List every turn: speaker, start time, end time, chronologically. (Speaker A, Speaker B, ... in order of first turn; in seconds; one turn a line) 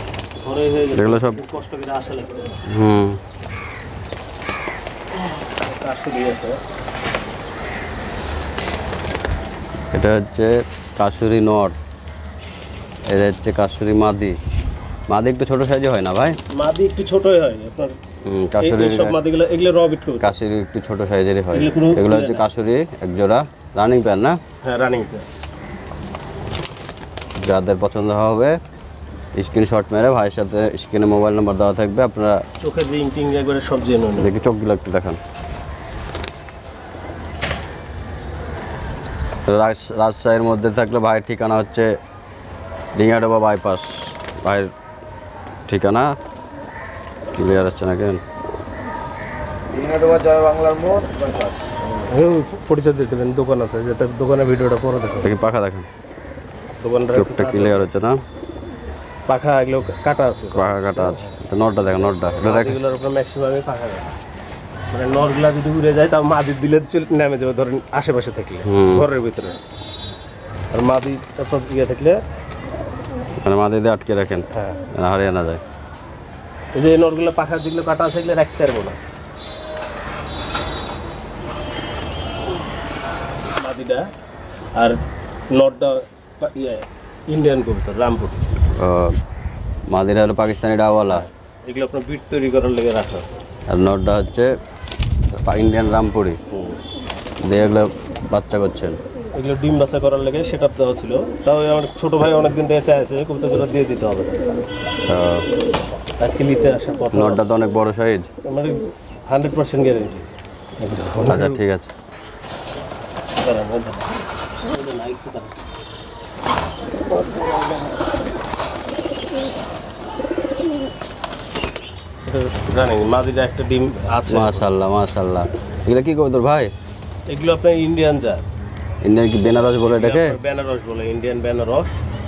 Speaker A: 0.4-2.6
Speaker B: 0.9-1.4
Speaker B: 2.6-3.2
Speaker A: 5.5-6.6
Speaker B: 9.9-11.8
Speaker B: 13.1-14.4
Speaker B: 15.1-16.4
Speaker A: 16.5-17.9
Speaker B: 18.2-19.1
Speaker A: 18.6-20.3
Speaker B: 20.2-24.4
Speaker A: 21.5-22.4
Speaker A: 24.6-25.2
Speaker B: 27.4-28.6
Speaker B: 29.3-32.4
Speaker A: 32.6-34.3
Speaker B: 34.2-35.2
Speaker B: 39.5-41.9
Speaker B: 43.0-44.7
Speaker B: 45.7-46.1
Speaker B: 47.3-48.2
Speaker C: 49.7-51.8
Speaker A: 52.1-55.3
Speaker B: 55.2-55.9
Speaker A: 56.8-57.9
Speaker B: 57.1-58.2
Speaker A: 59.3-61.3
Speaker B: 60.5-62.8
Speaker A: 62.4-64.1
Speaker A: 64.9-69.6
Speaker B: 68.7-69.0
Speaker A: 70.7-72.2
Speaker B: 73.4-75.6
Speaker A: 74.5-74.8
Speaker A: 76.7-79.0
Speaker A: 83.6-84.1
Speaker A: 85.5-88.5
Speaker B: 88.7-89.2
Speaker B: 89.9-91.2
Speaker A: 91.1-93.4
Speaker B: 93.7-94.5
Speaker B: 95.4-96.4
Speaker A: 96.5-96.8
Speaker B: 97.4-99.0
Speaker A: 99.3-104.5
Speaker B: 105.1-105.5
Speaker A: 106.2-107.5
Speaker B: 107.1-108.3
Speaker A: 108.4-110.3
Speaker A: 110.8-111.6
Speaker B: 111.2-111.9
Speaker A: 113.4-115.6
Speaker A: 117.1-117.9
Speaker A: 122.3-124.7
Speaker B: 124.3-126.7
Speaker A: 127.3-128.4
Speaker B: 129.0-130.3
Speaker A: 129.8-132.0